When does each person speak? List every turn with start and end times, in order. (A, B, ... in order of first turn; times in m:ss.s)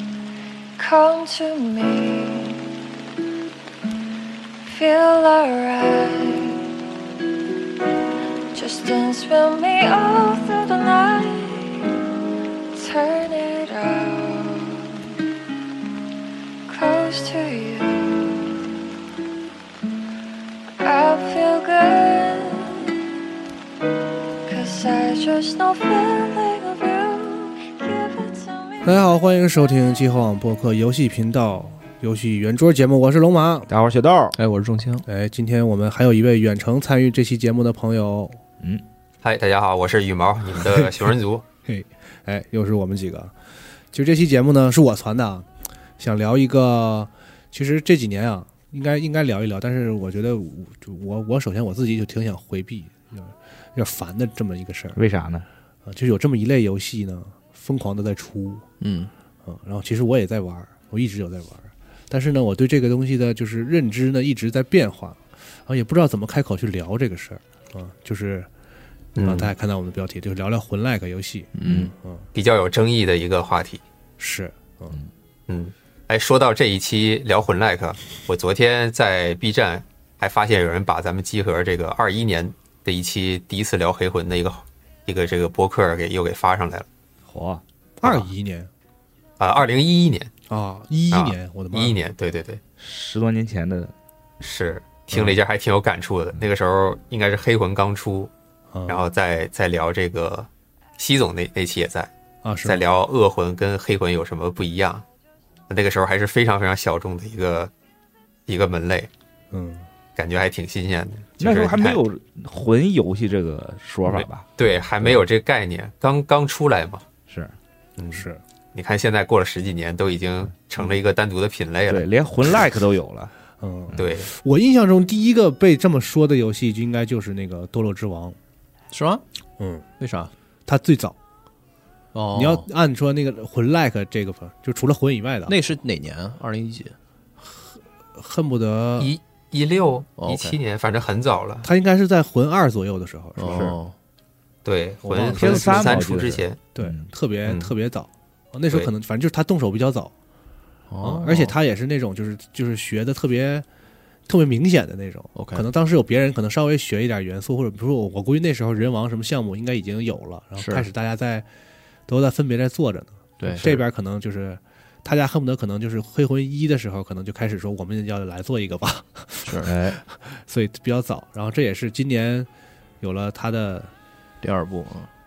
0:00.8-0:02.7 A
0:04.6-0:06.7 A
0:08.5-0:12.0 A
0:12.7-0:15.1 A
0:16.7-0:18.6 A
0:20.8-0:23.0 A
0:24.4-0:29.1 A
0:28.8-0:33.7 B
0:29.7-0:29.9 A
0:33.7-0:34.4 C
0:34.4-0:35.0 D
0:35.1-0:38.4 B
0:39.2-0:41.4 E
0:40.6-0:41.1 B
0:41.6-0:43.3 B
0:43.9-0:55.0 B
0:55.0-0:55.5 C
0:55.8-0:58.6 B
0:58.8-0:59.1 D
0:59.4-1:08.5 B
1:09.2-1:09.5 E
1:09.2-1:12.2 B
1:11.5-1:11.9 D
1:12.3-1:13.8 E
1:14.2-1:15.0 B
1:15.5-1:26.9 E
1:27.3-1:27.6 C
1:28.0-1:28.7 B
1:29.4-1:30.3 E
1:30.5-1:32.0 B
1:31.1-1:32.6 E
1:32.8-1:33.9 C
1:34.4-1:38.3 E
1:38.7-1:39.0 B
1:38.9-1:42.1 E
1:42.4-1:42.8 B
1:42.6-1:45.0 E
1:45.7-1:47.7 E
1:48.5-1:49.1 E
1:49.5-1:49.8 B
1:50.2-1:52.0 E
1:51.4-1:54.5 C
1:54.1-1:57.0 E
1:57.3-1:57.5 C
1:58.0-2:02.1 E
1:58.1-1:58.4 B
2:01.9-2:03.3 C
2:03.6-2:08.4 B
2:04.0-2:04.3 E
2:08.9-2:09.2 D
2:09.6-2:09.8 B
2:10.0-2:10.3 D
2:10.6-2:11.2 B
2:12.1-2:12.7 D
2:12.3-2:15.5 B
2:15.5-2:16.9 D
2:18.1-2:19.1 B
2:19.0-2:21.7 E
2:20.2-2:20.6 D
2:21.6-2:23.8 B
2:23.4-2:23.9 D
2:24.6-2:26.6 E
2:25.0-2:26.0 B
2:25.2-2:27.0 C
2:26.7-2:30.1 B
2:27.4-2:27.7 E
2:30.9-2:31.5 D
2:31.0-2:33.6 B
2:34.3-2:41.5 B
2:35.3-2:35.6 D
2:40.6-2:40.8 D
2:42.1-2:52.5 B
2:43.4-2:43.8 D
2:49.4-2:49.7 D
2:49.6-2:50.0 C
2:53.0-2:53.9 B
2:54.4-2:55.1 D